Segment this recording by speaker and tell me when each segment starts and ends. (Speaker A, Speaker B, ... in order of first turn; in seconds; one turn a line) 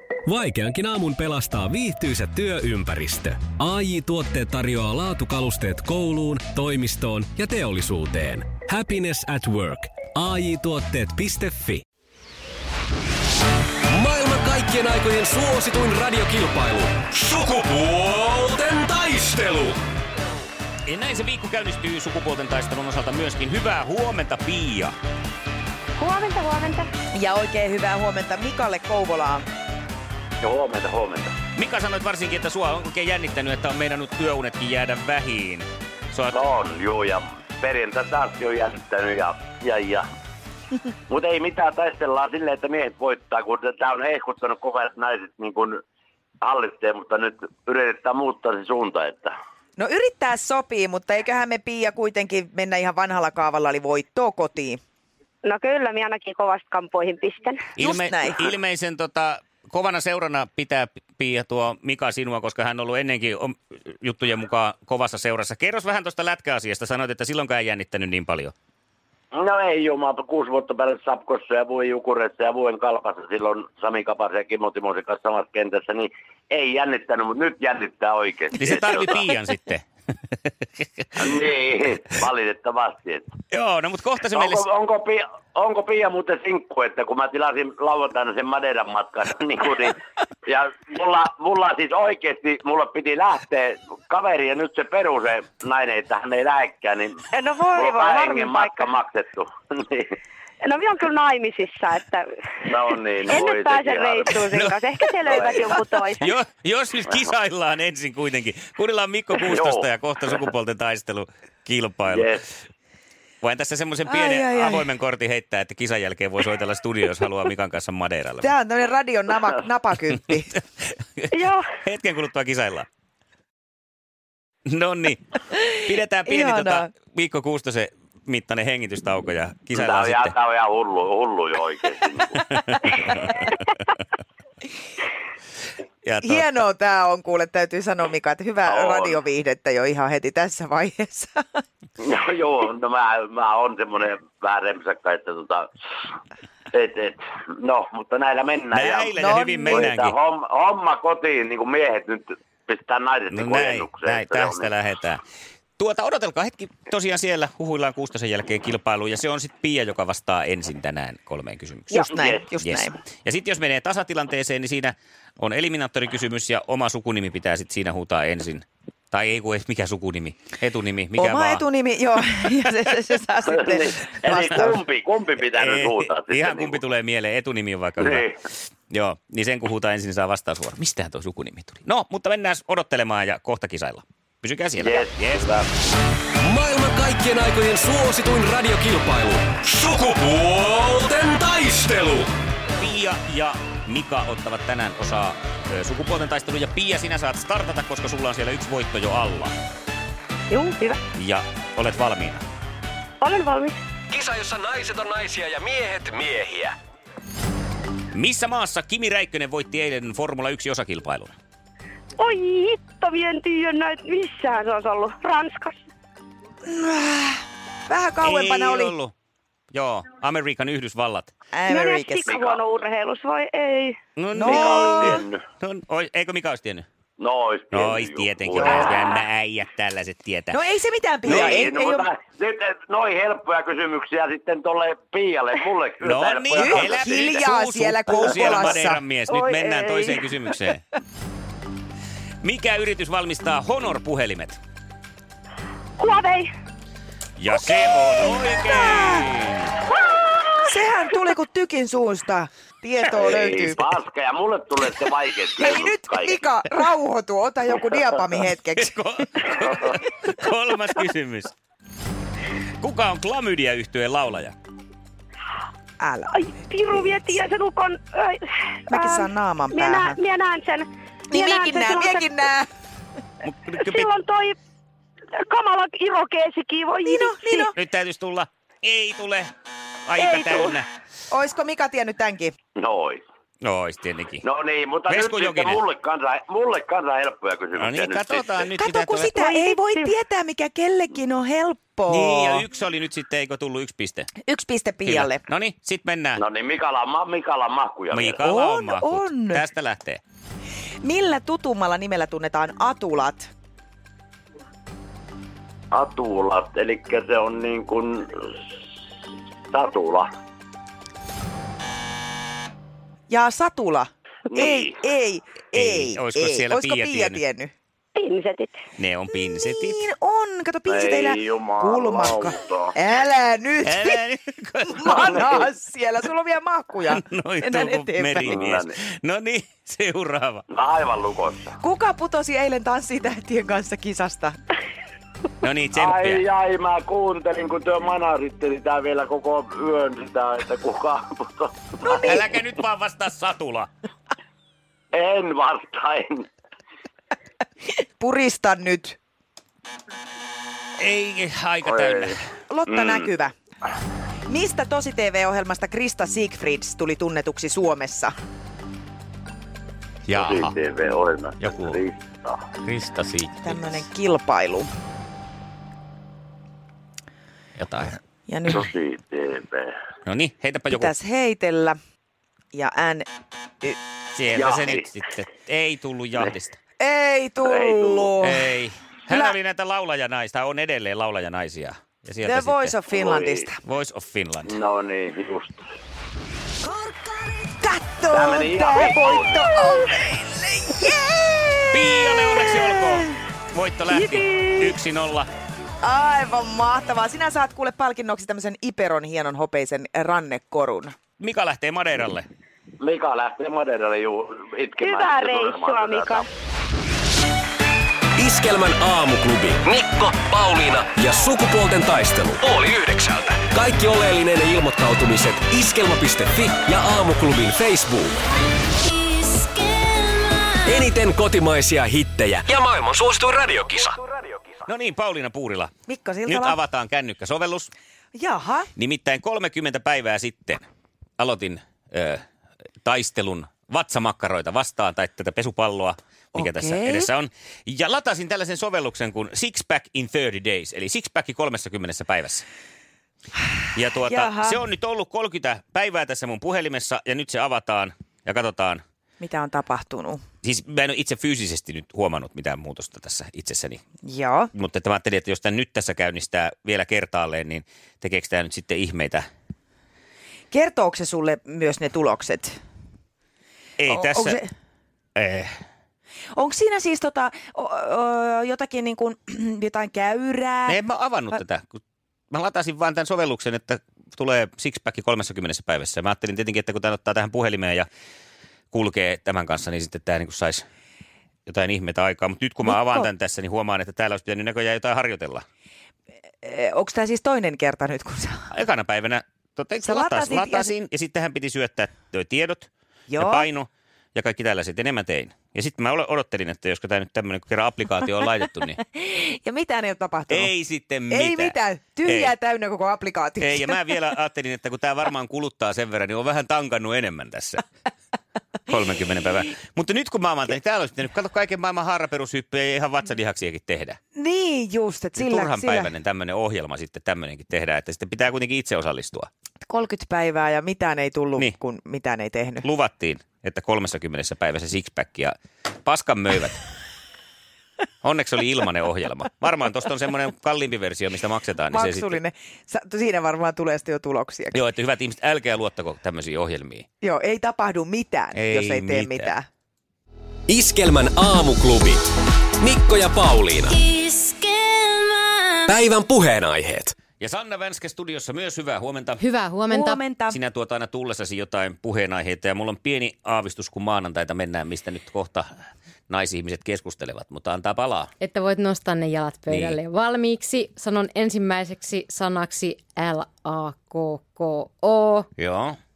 Speaker A: 0.2-11.8
Speaker A: 13.9-19.8
Speaker B: 20.9-24.9
Speaker C: 26.0-26.9
Speaker D: 27.1-29.4
Speaker E: 30.4-31.4
Speaker B: 31.6-36.4
Speaker E: 36.3-40.0
Speaker E: 41.1-45.8
Speaker E: 46.4-49.3
Speaker D: 49.8-54.8
Speaker C: 55.4-57.6
Speaker B: 57.8-68.5
Speaker D: 57.8-58.5
Speaker E: 69.3-79.3
Speaker B: 78.6-79.9
Speaker B: 80.8-81.2
Speaker E: 81.2-83.3
Speaker B: 83.5-84.6
Speaker E: 84.3-100.1
Speaker C: 97.3-99.0
Speaker C: 100.6-102.7
Speaker E: 102.7-105.7
Speaker C: 103.3-106.3
Speaker B: 104.5-104.8
Speaker B: 105.7-112.3
Speaker E: 109.3-110.4
Speaker E: 112.1-112.5
Speaker B: 113.4-118.5
Speaker D: 114.1-114.9
Speaker D: 118.4-120.6
Speaker B: 120.9-122.9
Speaker C: 121.3-121.7
Speaker B: 124.7-130.3
Speaker D: 126.3-126.9
Speaker E: 129.7-132.5
Speaker B: 132.5-133.5
Speaker B: 136.0-136.5
Speaker D: 136.2-141.4
Speaker E: 138.7-139.2
Speaker E: 142.0-145.7
Speaker E: 146.7-154.7
Speaker B: 148.7-150.1
Speaker D: 149.2-149.9
Speaker B: 153.3-155.2
Speaker B: 155.8-171.7
Speaker D: 161.9-163.0
Speaker E: 162.1-162.4
Speaker D: 171.2-174.8
Speaker E: 173.5-176.9
Speaker B: 174.5-174.8
Speaker B: 175.5-178.3
Speaker E: 178.0-178.3
Speaker B: 178.9-185.5
Speaker E: 184.8-185.7
Speaker A: 186.4-192.3
Speaker B: 192.8-199.5
Speaker C: 200.5-201.0
Speaker B: 201.2-202.4
Speaker C: 203.2-203.8
Speaker A: 204.1-206.8
Speaker B: 208.1-211.3
Speaker C: 212.2-215.8
Speaker D: 216.7-218.9
Speaker B: 218.2-219.1
Speaker B: 219.7-221.3
Speaker D: 221.5-222.3
Speaker C: 221.7-224.0
Speaker E: 222.2-222.6
Speaker B: 224.2-224.6
Speaker D: 224.3-225.2
Speaker E: 224.5-225.4
Speaker B: 225.6-226.9
Speaker E: 227.2-229.2
Speaker B: 227.7-230.6
Speaker D: 228.6-229.0
Speaker D: 230.5-232.1
Speaker E: 231.3-237.5
Speaker B: 231.3-231.6
Speaker B: 236.0-240.8
Speaker D: 236.6-239.0
Speaker C: 239.3-240.3
Speaker B: 242.4-244.6
Speaker C: 246.0-246.5
Speaker B: 247.4-249.8
Speaker D: 248.4-249.3
Speaker D: 250.6-253.9
Speaker E: 253.1-256.4
Speaker D: 255.6-259.9
Speaker B: 258.8-261.5
Speaker B: 262.8-264.6
Speaker D: 266.0-266.3
Speaker C: 266.3-272.4
Speaker D: 266.9-267.4
Speaker D: 268.9-270.2
Speaker D: 271.3-272.7
Speaker B: 273.4-274.1
Speaker C: 273.8-274.6
Speaker C: 275.4-277.7
Speaker D: 277.0-277.7
Speaker B: 277.7-279.5
Speaker B: 280.1-280.9
Speaker C: 280.2-280.7
Speaker D: 281.3-282.6
Speaker E: 282.8-283.2
Speaker B: 283.6-284.4
Speaker E: 284.4-288.7
Speaker B: 285.1-285.8
Speaker B: 287.8-289.4
Speaker D: 288.8-292.6
Speaker C: 289.3-290.1
Speaker B: 292.1-294.3
Speaker D: 294.5-295.4
Speaker B: 295.1-296.4
Speaker E: 296.4-298.4
Speaker B: 298.1-300.2
Speaker D: 298.4-299.6
Speaker D: 301.0-303.5
Speaker E: 305.9-308.6
Speaker E: 309.7-310.3
Speaker D: 313.3-317.7
Speaker E: 314.5-315.0
Speaker B: 315.8-317.4
Speaker C: 318.2-318.8
Speaker B: 319.0-320.1
Speaker D: 319.3-324.2
Speaker E: 320.9-322.9
Speaker B: 323.9-325.2
Speaker D: 324.9-328.7
Speaker E: 325.1-325.7
Speaker B: 327.1-330.6
Speaker E: 328.4-329.0
Speaker E: 330.7-331.8
Speaker D: 331.8-334.6
Speaker B: 335.6-336.4
Speaker E: 335.9-342.4
Speaker B: 342.1-343.9
Speaker E: 345.1-346.5
Speaker D: 348.2-349.2
Speaker B: 351.0-352.4
Speaker E: 351.9-352.4
Speaker D: 352.7-353.5
Speaker E: 352.9-353.3
Speaker D: 354.5-358.3
Speaker B: 360.3-360.7
Speaker E: 360.3-362.7
Speaker B: 361.6-361.9
Speaker B: 362.8-363.5
Speaker D: 363.6-364.9
Speaker B: 367.8-368.1
Speaker D: 368.5-368.9
Speaker E: 368.7-369.9
Speaker B: 370.3-371.1
Speaker D: 370.9-372.0
Speaker D: 372.7-373.3
Speaker B: 374.3-376.8
Speaker E: 374.5-375.1
Speaker D: 377.0-378.6
Speaker E: 377.7-378.4
Speaker B: 378.4-383.0
Speaker D: 379.3-379.6
Speaker D: 382.4-383.8
Speaker E: 383.1-383.7
Speaker B: 383.8-384.8
Speaker E: 384.7-385.8
Speaker D: 386.8-393.4
Speaker E: 388.3-390.1
Speaker B: 391.9-395.5
Speaker D: 394.1-394.9
Speaker D: 396.0-401.1
Speaker B: 401.4-402.5
Speaker E: 403.0-406.5
Speaker C: 405.0-406.5
Speaker A: 408.4-418.4
Speaker A: 420.7-424.5
Speaker B: 424.9-425.9
Speaker D: 426.1-426.8
Speaker B: 426.5-427.9
Speaker D: 428.3-428.9
Speaker B: 429.0-430.9
Speaker B: 431.4-432.4
Speaker B: 433.0-442.6
Speaker D: 436.6-437.3
Speaker B: 443.9-449.0
Speaker D: 444.2-444.8
Speaker D: 449.4-450.4
Speaker B: 450.6-454.0
Speaker D: 454.2-454.7
Speaker B: 454.8-459.4
Speaker D: 460.7-462.8
Speaker B: 464.0-464.6
Speaker D: 464.1-464.7
Speaker B: 465.4-465.8
Speaker D: 466.6-471.0
Speaker B: 470.9-472.0
Speaker B: 472.5-478.1
Speaker B: 478.9-480.8
Speaker B: 481.7-485.6
Speaker D: 482.9-483.3
Speaker D: 486.6-488.7
Speaker B: 488.7-499.0
Speaker D: 490.0-490.9
Speaker D: 493.3-493.7
Speaker D: 499.1-500.7
Speaker B: 500.5-502.5
Speaker D: 501.3-504.0
Speaker B: 503.6-507.8
Speaker B: 508.9-514.2
Speaker D: 514.4-516.1
Speaker B: 515.4-519.5
Speaker D: 519.8-522.9
Speaker B: 522.8-525.5
Speaker B: 526.0-526.8
Speaker B: 528.2-532.4
Speaker D: 531.9-534.8
Speaker B: 534.7-537.0
Speaker D: 537.2-539.7
Speaker B: 538.5-539.5
Speaker A: 540.7-542.3
Speaker A: 542.8-544.1
Speaker A: 545.8-547.2
Speaker B: 547.4-549.4
Speaker F: 549.4-550.2
Speaker D: 549.9-550.6
Speaker B: 550.5-555.7
Speaker B: 556.3-558.3
Speaker F: 558.4-565.5
Speaker B: 559.7-560.0
Speaker B: 565.6-566.0